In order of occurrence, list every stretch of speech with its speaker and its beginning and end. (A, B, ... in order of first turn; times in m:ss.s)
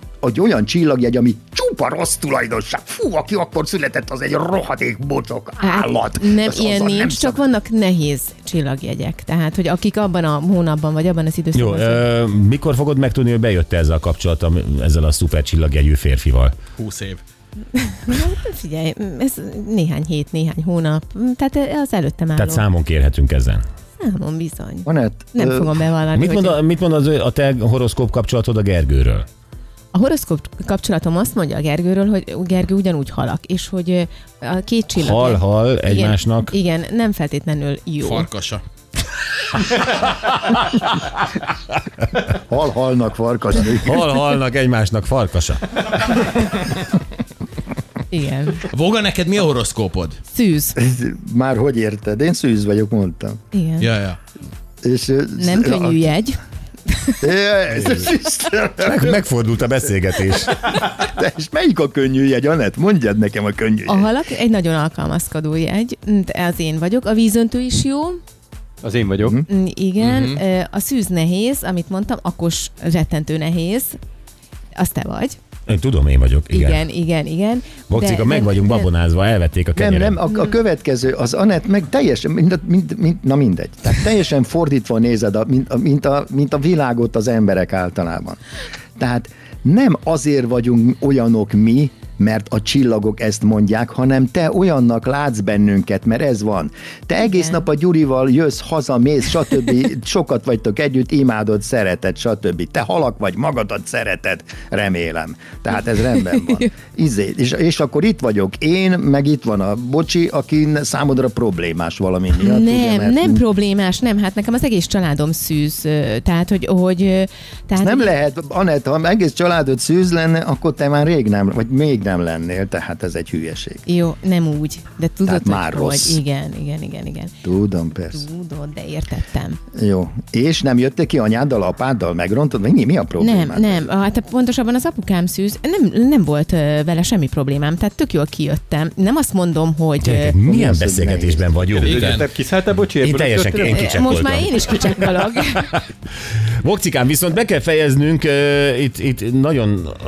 0:00.2-0:07.5 A
0:05.6-0:12.0 B
0:11.6-0:16.5 C
0:16.8-0:17.2 D
0:17.7-0:22.7 B
0:22.4-0:23.6 C
0:24.0-0:26.6 B
0:24.9-0:25.7 A
0:26.2-0:29.1 C
0:29.9-0:38.3 B
0:35.0-0:36.5 C
0:38.0-0:38.6 D
0:42.5-0:44.0 A
0:43.8-0:45.6 C
0:48.1-0:48.6 B
0:48.7-0:50.2 D
0:50.3-0:50.8 B
0:50.8-0:53.4 A
0:53.5-0:53.9 B
0:53.8-0:54.2 D
0:54.8-0:56.1 A
0:55.4-0:57.2 B
0:57.2-0:59.2 A
0:58.8-1:00.5 C
1:00.7-1:04.1 A
1:03.9-1:08.2 B
1:08.8-1:09.4 E
1:09.5-1:14.0 B
1:10.0-1:10.4 D
1:14.8-1:15.4 B
1:15.7-1:16.8 C
1:16.5-1:18.9 B
1:17.9-1:20.2 C
1:19.8-1:28.4 A
1:29.0-1:53.4 A
1:46.2-1:46.7 B
1:52.4-1:58.1 B
1:57.8-2:03.8 A
2:03.9-2:07.4 B
2:05.3-2:06.2 A
2:07.4-2:08.3 A
2:08.1-2:09.6 B
2:09.8-2:13.9 A
2:13.2-2:20.4 B
2:20.1-2:21.8 C
2:20.5-2:21.5 A
2:21.8-2:25.0 E
2:21.8-2:22.3 D
2:23.1-2:24.5 C
2:23.6-2:25.8 B
2:26.6-2:29.9 C